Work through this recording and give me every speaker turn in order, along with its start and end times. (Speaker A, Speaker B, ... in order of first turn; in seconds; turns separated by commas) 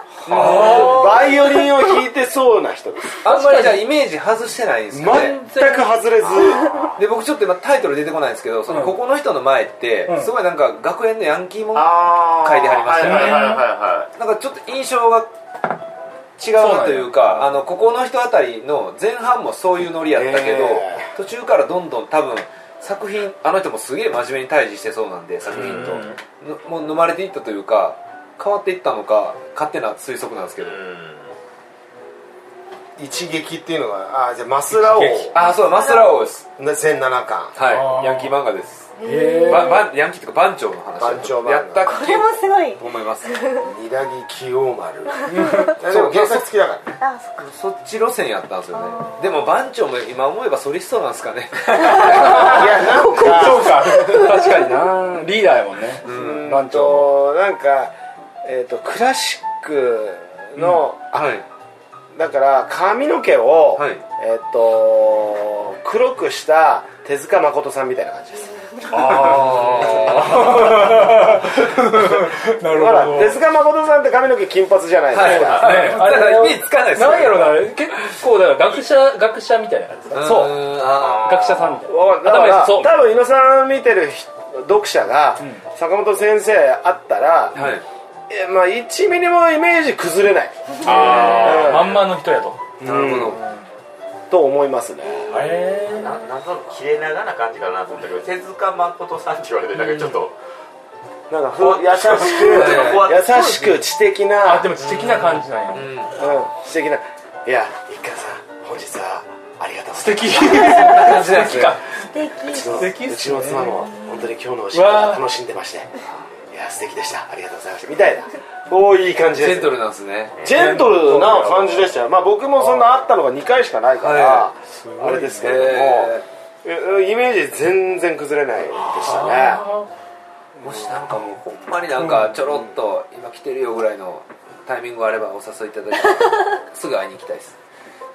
Speaker A: 0.3-1.3, Speaker B: 0.3-3.2, Speaker C: 0.3-1.0, Speaker A: 3.2-5.4, Speaker C: 3.3-3.8, Speaker B: 4.9-6.9, Speaker C: 5.1-5.9, Speaker A: 7.0-13.6, Speaker C: 8.7-8.9, Speaker D: 11.7-14.1, Speaker C: 13.0-13.6, Speaker A: 14.2-15.3, Speaker A: 16.4-30.8, Speaker C: 16.5-17.4, Speaker B: 20.1-21.1, Speaker D: 25.5-26.1, Speaker D: 30.6-31.3, Speaker B: 33.0-35.4, Speaker C: 34.8-35.3, Speaker A: 35.3-36.5, Speaker E: 35.7-36.3, Speaker B: 36.6-37.6, Speaker A: 37.6-38.9, Speaker C: 37.6-38.3, Speaker E: 39.0-39.9, Speaker C: 39.0-39.8, Speaker A: 39.5-43.3, Speaker B: 41.0-41.9, Speaker E: 41.8-43.7, Speaker B: 43.6-47.0, Speaker E: 45.3-45.7, Speaker C: 45.3-45.8, Speaker A: 45.8-46.5, Speaker E: 47.0-47.5, Speaker A: 47.4-52.8, Speaker E: 48.7-49.3, Speaker C: 51.8-57.1, Speaker B: 52.2-54.4, Speaker A: 56.0-56.4, Speaker B: 56.1-57.9, Speaker B: 58.4-61.4, Speaker A: 61.1-61.5, Speaker B: 62.1-76.1, Speaker A: 63.8-64.0, Speaker C: 68.9-73.4, Speaker A: 69.0-70.5, Speaker A: 75.1-77.6, Speaker C: 75.2-80.6, Speaker A: 80.1-81.6, Speaker B: 80.2-80.5, Speaker D: 81.0-81.5, Speaker C: 81.2-83.0, Speaker B: 81.8-87.6, Speaker A: 87.5-87.8, Speaker B: 88.3-92.0, Speaker C: 90.8-92.8, Speaker A: 91.2-91.5, Speaker B: 92.8-93.4, Speaker A: 92.8-93.4, Speaker B: 94.3-95.4, Speaker C: 95.3-96.2, Speaker D: 95.3-100.3, Speaker A: 99.8-100.1, Speaker B: 101.3-104.8, Speaker D: 101.6-103.7, Speaker A: 102.4-103.1, Speaker C: 104.4-105.9, Speaker A: 104.8-106.1, Speaker B: 106.1-111.0, Speaker C: 110.0-112.0, Speaker A: 110.5-111.8, Speaker E: 112.0-112.9, Speaker B: 112.5-116.0, Speaker C: 112.6-113.9, Speaker C: 114.7-115.2, Speaker B: 116.5-119.8, Speaker A: 119.4-120.4, Speaker B: 120.4-129.7, Speaker C: 120.5-121.8, Speaker A: 124.0-124.5, Speaker C: 124.8-125.5, Speaker A: 125.4-126.2, Speaker C: 129.0-129.9, Speaker A: 130.6-137.6, Speaker C: 132.0-132.3